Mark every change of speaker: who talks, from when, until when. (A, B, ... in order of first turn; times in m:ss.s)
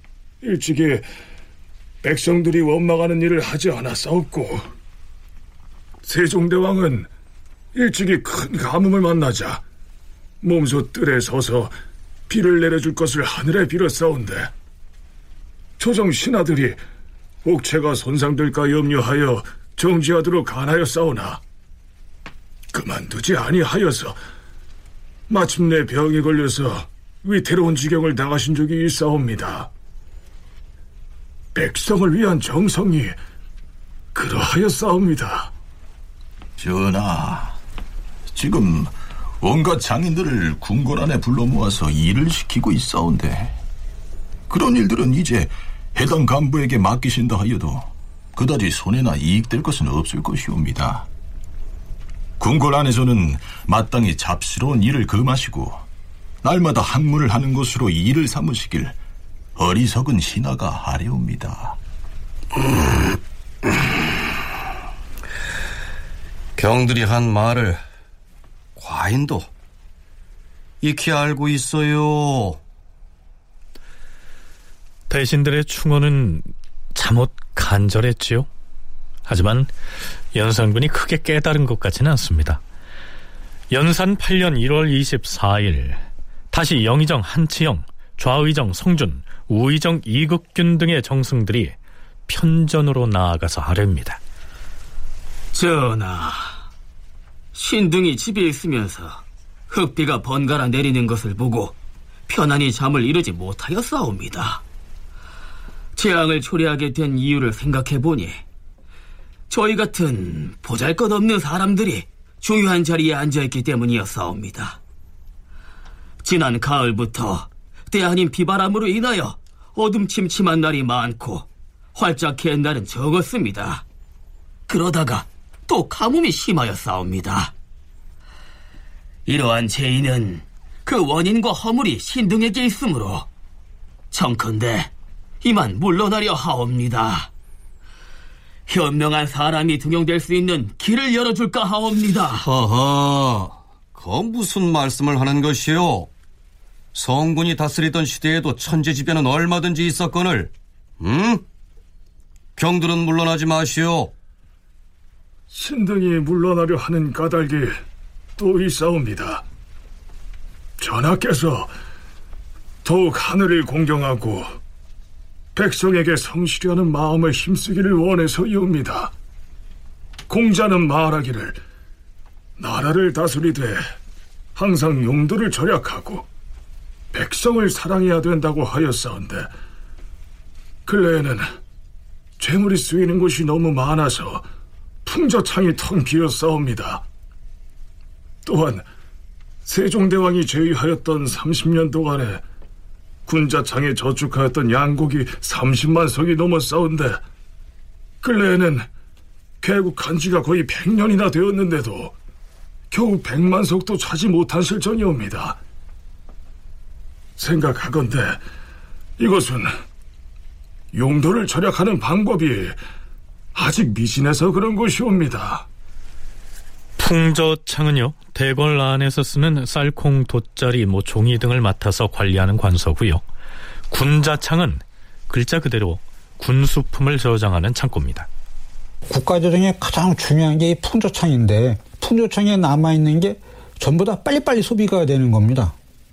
0:00.4-0:01.0 A
0:02.0-0:04.6 A
0:06.0-0:07.1 A
0:07.8-0:09.6 A
0:10.4-0:11.7 A
0:12.3-0:14.5 A
0:15.8-0:16.8 A
0:17.4-0:21.4 A
0:22.7-0:24.2 A
0:25.3-0:29.7 A
0:31.6-0:33.2 A
0:34.1-0:35.5 A
0:36.6-0:37.6 B
0:38.4-0:43.6 B
0:44.5-0:51.1 B
0:52.4-0:55.8 B
0:56.4-0:59.0 B
0:59.6-1:01.8 B
1:02.6-1:03.1 C
1:06.6-1:07.8 C
1:08.8-1:09.5 C
1:10.8-1:12.6 C
1:15.1-1:18.5 D
1:19.3-1:19.7 D
1:20.3-1:22.6 D
1:23.7-1:31.8 D
1:32.3-1:34.2 D
1:35.5-1:36.6 E
1:37.5-1:41.8 E
1:42.3-1:44.6 E
1:46.0-1:48.4 E
1:49.5-1:54.8 E
1:56.2-2:03.8 E
2:04.7-2:07.5 E
2:09.3-2:13.3 E
2:14.1-2:14.9 E
2:15.4-2:17.3 E
2:18.7-2:22.4 E
2:22.4-2:26.1 C
2:27.0-2:31.4 C
2:32.6-2:34.1 C
2:35.5-2:37.8 A
2:38.4-2:39.4 A
2:40.8-2:41.7 A
2:42.8-2:44.5 A
2:45.6-2:49.1 A
2:50.3-2:51.6 A
2:52.6-2:53.8 A
2:54.6-2:56.3 A
2:57.1-2:59.5 A
3:00.9-3:01.5 A
3:02.4-3:04.4 A
3:05.0-3:07.0 A
3:08.4-3:08.9 A
3:09.6-3:12.4 A
3:13.3-3:17.2 A
3:18.2-3:18.9 A
3:19.6-3:22.2 A
3:22.9-3:25.6 A
3:27.4-3:28.4 A
3:29.2-3:29.7 A
3:30.9-3:32.8 A
3:33.5-3:35.7 A
3:37.0-3:43.2 D
3:43.9-3:48.3 D
3:49.1-3:55.7 F